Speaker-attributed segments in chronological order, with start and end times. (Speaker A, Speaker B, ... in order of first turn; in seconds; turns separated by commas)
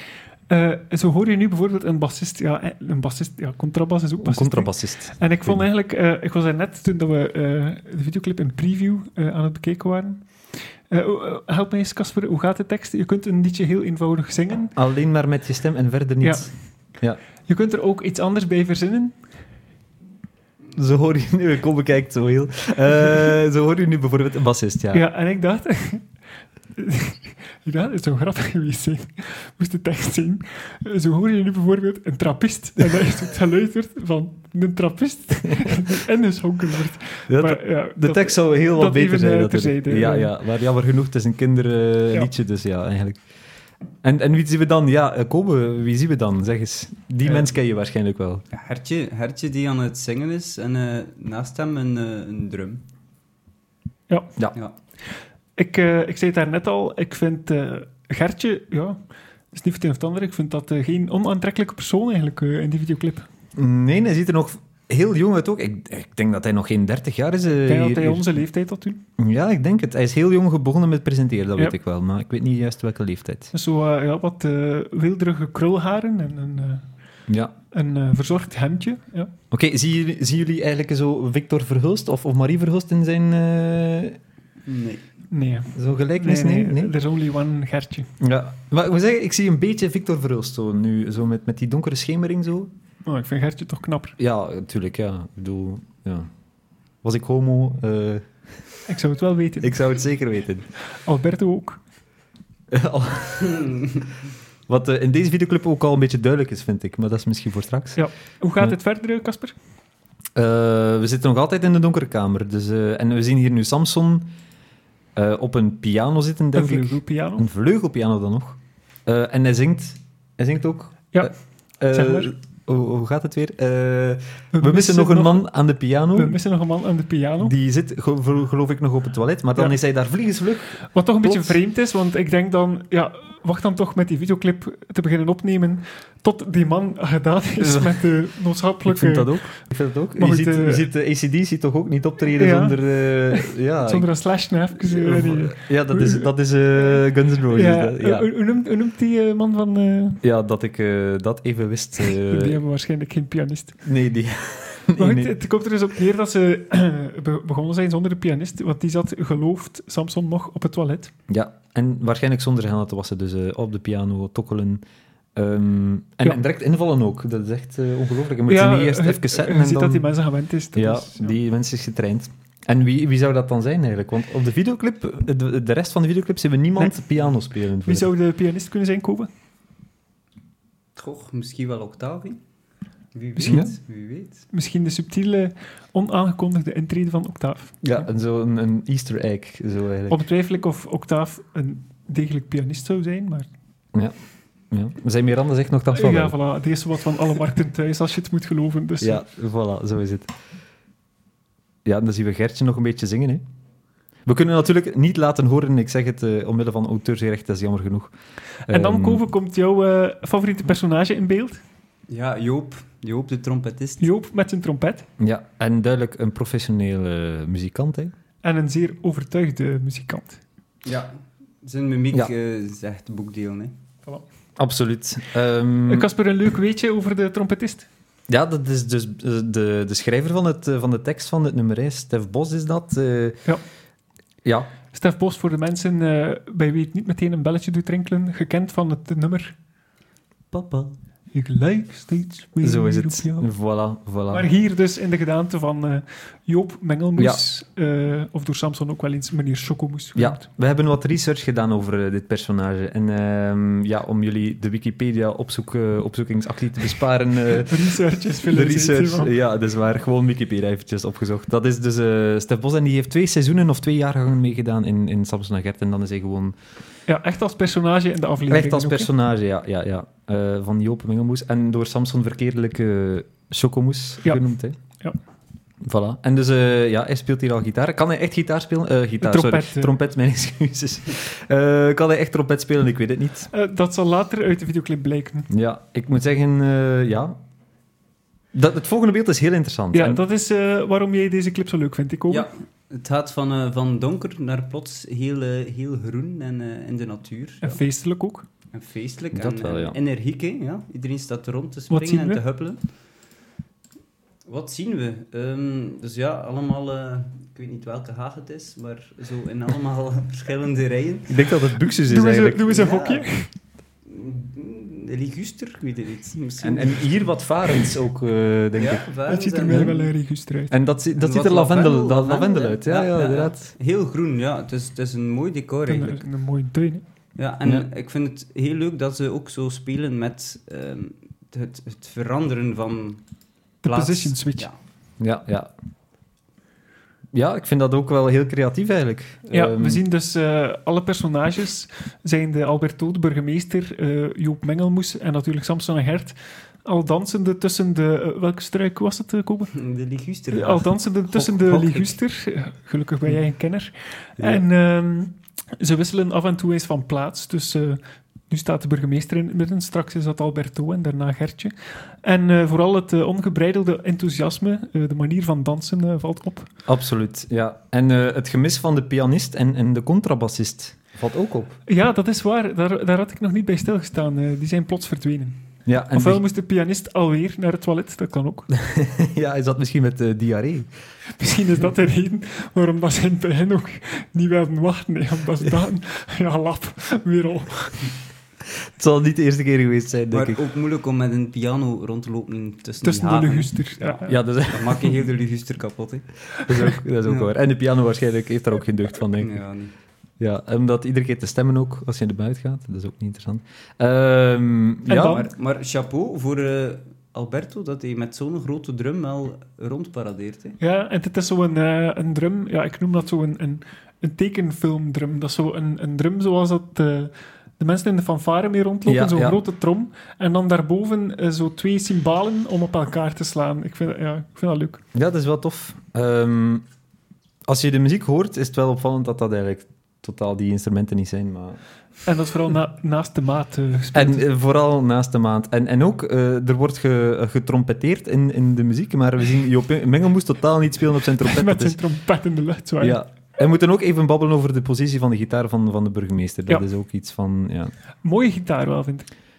Speaker A: 0.5-14.7, Speaker B: 4.2-5.6, Speaker B: 14.8-17.2, Speaker A: 16.2-16.5, Speaker A: 17.4-19.2, Speaker B: 20.7-25.0, Speaker A: 24.9-26.1, Speaker A: 26.8-40.3, Speaker B: 37.3-43.2, Speaker B: 44.0-48.4, Speaker C: 48.5-52.8, Speaker A: 55.5-59.0, Speaker A: 59.5-63.2, Speaker B: 63.5-68.4, Speaker A: 67.6-69.0, Speaker B: 69.2-73.5, Speaker A: 73.5-76.9, Speaker B: 77.3-77.5, Speaker A: 77.7-79.3, Speaker B: 79.5-84.2, Speaker C: 84.6-85.0, Speaker A: 85.3-88.1, Speaker B: 85.7-86.9, Speaker B: 88.2-92.7, Speaker A: 93.0-94.2, Speaker B: 94.2-96.3, Speaker B: 97.0-98.2, Speaker A: 98.9-99.8, Speaker B: 99.6-100.6, Speaker A: 100.8-101.8, Speaker B: 102.7-103.6, Speaker C: 103.4-104.0, Speaker B: 104.7-108.0, Speaker A: 108.0-109.5, Speaker B: 110.3-114.3, Speaker B: 115.2-126.4, Speaker A: 116.5-117.4, Speaker A: 121.9-122.3, Speaker A: 124.5-125.5, Speaker A: 126.1-127.5, Speaker B: 127.4-131.6, Speaker A: 130.9-139.3, Speaker B: 137.6-138.1, Speaker B: 138.9-144.1, Speaker A: 140.2-140.9, Speaker A: 142.4-146.3, Speaker B: 144.8-148.3, Speaker A: 146.9-150.2, Speaker B: 150.2-152.6, Speaker A: 152.0-153.8, Speaker B: 153.8-155.3, Speaker A: 154.9-161.1, Speaker B: 161.3-164.8, Speaker B: 165.3-170.0, Speaker A: 168.5-171.3, Speaker B: 170.7-178.1, Speaker A: 177.8-179.3, Speaker C: 180.9-182.4, Speaker C: 183.1-184.4, Speaker A: 183.4-183.7, Speaker B: 183.4-183.7, Speaker A: 184.5-187.8, Speaker B: 187.8-190.2, Speaker A: 190.1-193.5, Speaker B: 194.7-196.3, Speaker A: 195.9-199.2, Speaker B: 199.0-200.3, Speaker B: 201.8-203.4, Speaker B: 204.2-208.1, Speaker B: 208.7-209.2, Speaker A: 208.7-211.6, Speaker C: 212.1-214.1, Speaker A: 214.0-215.1, Speaker B: 215.2-218.1, Speaker A: 218.4-220.4, Speaker C: 220.8-223.7, Speaker B: 224.6-226.1, Speaker A: 225.9-227.9, Speaker B: 228.3-233.4, Speaker B: 234.4-234.7, Speaker A: 234.9-239.6, Speaker C: 240.5-241.0, Speaker A: 241.3-243.5, Speaker B: 242.6-244.5, Speaker A: 244.3-250.4, Speaker B: 250.1-257.9, Speaker A: 257.6-259.3, Speaker B: 258.4-266.5, Speaker A: 267.1-269.1, Speaker B: 268.5-274.7, Speaker B: 275.8-283.5, Speaker A: 279.2-279.9, Speaker A: 283.5-285.5, Speaker B: 285.5-287.4, Speaker B: 288.5-290.2, Speaker A: 289.9-292.5, Speaker C: 292.3-297.8, Speaker A: 297.6-298.4, Speaker C: 298.7-302.8, Speaker B: 299.3-300.0, Speaker A: 301.9-302.4, Speaker C: 304.4-311.4, Speaker B: 311.3-312.8, Speaker A: 312.0-313.5, Speaker C: 312.6-313.3, Speaker C: 314.0-317.1, Speaker B: 316.6-319.1, Speaker C: 318.8-320.1, Speaker A: 319.3-320.7, Speaker B: 320.7-323.7, Speaker C: 321.2-326.2, Speaker A: 325.9-327.0, Speaker C: 327.4-333.2, Speaker A: 333.8-334.7, Speaker C: 333.8-334.8, Speaker B: 335.2-335.7, Speaker B: 337.3-340.0, Speaker A: 339.5-349.7, Speaker C: 349.7-352.1, Speaker A: 350.5-366.7, Speaker B: 354.4-354.6, Speaker B: 366.9-371.8, Speaker A: 371.9-375.6, Speaker B: 375.9-376.4, Speaker A: 376.1-378.7, Speaker B: 378.8-380.9, Speaker A: 381.4-388.1, Speaker B: 388.8-390.6, Speaker C: 390.3-396.4, Speaker A: 393.0-394.4, Speaker B: 394.3-395.0, Speaker B: 396.7-399.6, Speaker C: 397.2-397.5, Speaker C: 399.4-399.9, Speaker B: 400.4-405.4, Speaker A: 405.1-405.5, Speaker C: 405.2-410.8, Speaker A: 410.8-425.0, Speaker B: 419.1-419.6, Speaker B: 425.1-426.8, Speaker B: 427.6-431.8, Speaker A: 432.2-434.4, Speaker B: 434.1-442.0, Speaker A: 441.4-443.2, Speaker B: 443.0-447.9, Speaker A: 448.2-449.3